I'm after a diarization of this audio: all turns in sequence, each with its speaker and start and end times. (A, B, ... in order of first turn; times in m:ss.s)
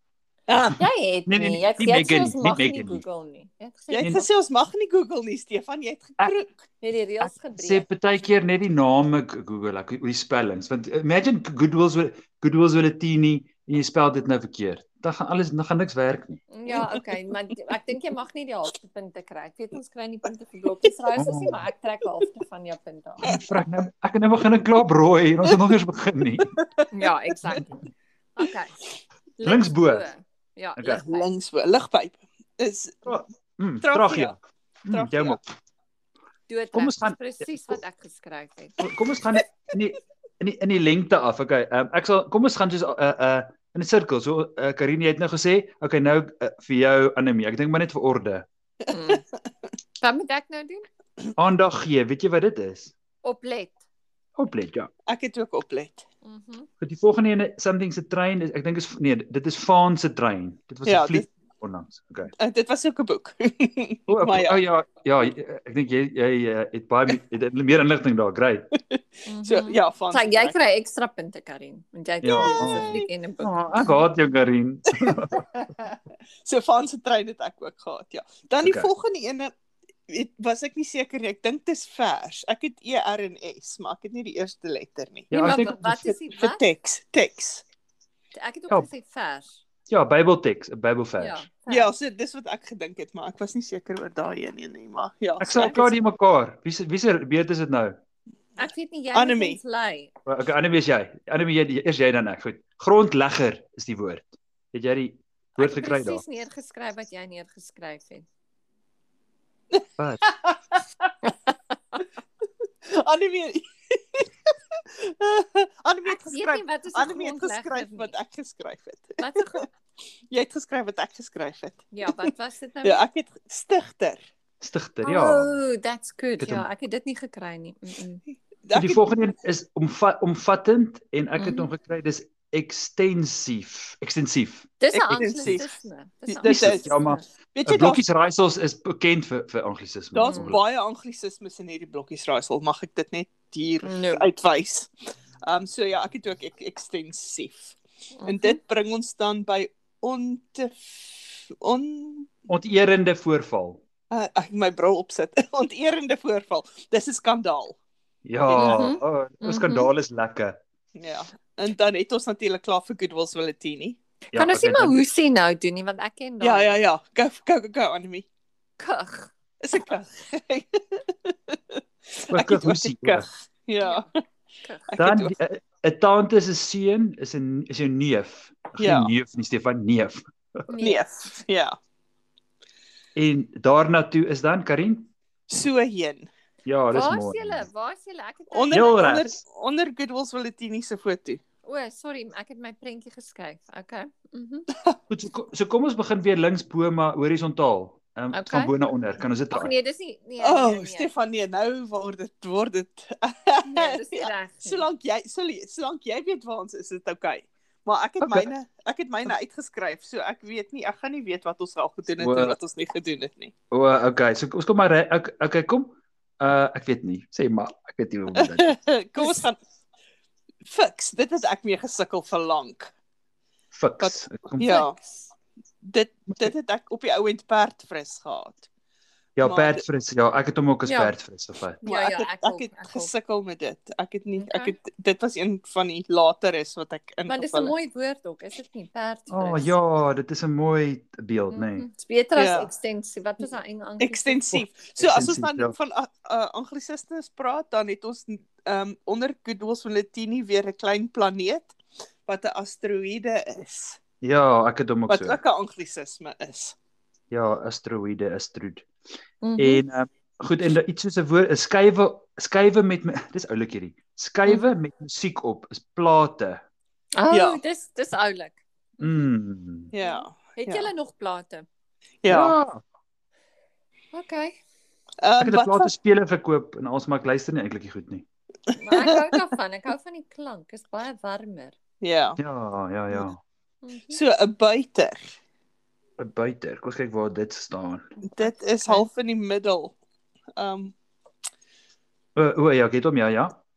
0:00.6-0:04.2 A
0:00.6-0:03.0 B
0:03.9-0:06.6 C
0:04.0-0:04.2 B
0:06.8-0:07.8 A
0:07.2-0:16.4 B
0:16.5-0:23.3 A
0:16.7-0:17.0 C
0:21.2-0:21.6 B
0:23.2-0:26.5 B
0:23.3-0:23.6 C
0:26.5-0:27.6 C
0:26.9-0:27.8 A
0:28.4-0:28.7 A
0:29.4-0:31.3 A
0:29.4-0:30.0 B
0:30.8-0:31.0 B
0:30.8-0:33.1 C
0:33.0-0:35.4 B
0:33.8-0:34.3 C
0:34.9-0:35.4 C
0:36.5-0:38.8 A
0:36.7-0:37.7 B
0:38.8-0:48.4 B
0:48.9-0:49.2 A
0:50.0-0:50.8 A
0:51.4-0:52.9 B
0:53.2-0:53.8 A
0:54.4-0:54.9 B
0:55.1-0:56.0 C
0:56.2-0:56.7 A
0:56.8-1:02.3 B
1:00.8-1:01.3 C
1:02.4-1:04.6 C
1:04.1-1:08.7 B
1:08.9-1:10.5 C
1:09.3-1:14.0 A
1:12.2-1:15.4 B
1:12.3-1:13.1 C
1:16.4-1:19.5 C
1:18.6-1:18.9 B
1:20.1-1:25.5 C
1:25.3-1:26.0 B
1:25.3-1:26.6 A
1:26.3-1:27.6 C
1:28.3-1:29.6 A
1:29.9-1:31.4 B
1:31.2-1:31.9 A
1:31.7-1:35.9 C
1:35.4-1:38.0 B
1:38.6-1:40.1 A
1:39.1-1:39.6 C
1:40.2-1:46.2 B
1:45.6-1:48.2 A
1:49.7-1:50.8 C
1:51.2-1:52.0 A
1:52.8-1:59.6 C
1:56.0-1:58.1 A
1:59.2-1:59.7 A
2:00.3-2:02.3 C
2:01.9-2:03.0 A
2:02.8-2:04.2 C
2:04.6-2:05.5 B
2:05.0-2:08.2 A
2:06.4-2:06.7 B
2:08.6-2:09.1 C
2:08.7-2:14.7 B
2:11.4-2:11.7 A
2:14.8-2:17.2 A
2:14.9-2:15.7 C
2:16.3-2:17.0 C
2:16.4-2:20.6 B
2:17.5-2:18.0 C
2:20.1-2:24.9 C
2:20.3-2:20.6 A
2:23.8-2:24.3 A
2:25.4-2:32.3 C
2:28.2-2:28.6 A
2:32.5-2:33.8 B
2:34.1-2:37.8 C
2:38.2-2:40.6 B
2:38.4-2:38.9 C
2:38.6-2:39.9 A
2:40.9-2:44.0 C
2:44.3-2:45.0 B
2:44.3-2:46.8 A
2:46.4-2:48.3 C
2:48.8-2:49.3 A
2:49.6-2:54.1 C
2:52.3-2:53.3 B
2:53.8-2:54.1 A
2:54.6-2:54.9 A
2:54.9-2:55.3 C
2:55.0-3:00.2 B
2:58.8-2:59.1 C
3:00.7-3:01.0 A
3:00.8-3:01.8 C
3:03.1-3:05.1 B
3:05.5-3:06.3 C
3:06.6-3:07.7 B
3:06.9-3:09.0 A
3:08.5-3:11.4 C
3:08.7-3:09.4 B
3:11.6-3:14.7 A
3:15.1-3:19.7 B
3:18.3-3:18.7 A
3:19.5-3:21.1 A
3:20.4-3:33.5 C
3:23.6-3:24.8 A
3:28.2-3:28.5 B
3:32.2-3:32.6 B
3:33.7-3:38.8 B
3:38.4-3:39.6 C
3:40.6-3:42.9 C
3:43.7-3:44.8 B
3:44.0-3:45.0 C
3:45.8-3:48.7 C
3:49.4-3:51.8 B
3:49.4-3:49.8 C
3:50.8-3:51.1 A
3:51.8-3:53.1 A
3:51.8-3:57.7 C
3:54.4-3:54.7 A
3:57.3-3:59.7 A
3:59.3-4:01.9 B
4:01.5-4:04.4 A
4:02.4-4:02.7 C
4:04.0-4:14.0 C
4:04.5-4:05.7 B
4:14.2-4:15.4 B
4:15.1-4:16.7 C
4:17.3-4:18.9 B
4:19.4-4:19.8 A
4:19.6-4:26.6 B
4:27.1-4:29.2 A
4:27.3-4:27.6 C
4:29.0-4:29.9 B
4:29.9-4:30.9 C
4:30.0-4:31.6 A
4:32.2-4:32.5 C
4:32.3-4:32.8 B
4:34.1-4:34.6 A
4:35.2-4:35.9 C
4:35.4-4:38.2 B
4:38.8-4:41.8 A
4:38.9-4:39.4 C
4:42.0-4:42.4 C
4:42.4-4:43.4 B
4:43.8-4:44.2 A
4:44.1-4:45.2 C
4:46.2-4:48.1 B
4:48.3-4:49.9 C
4:48.4-4:49.1 A
4:50.6-4:50.9 C
4:52.4-4:53.6 B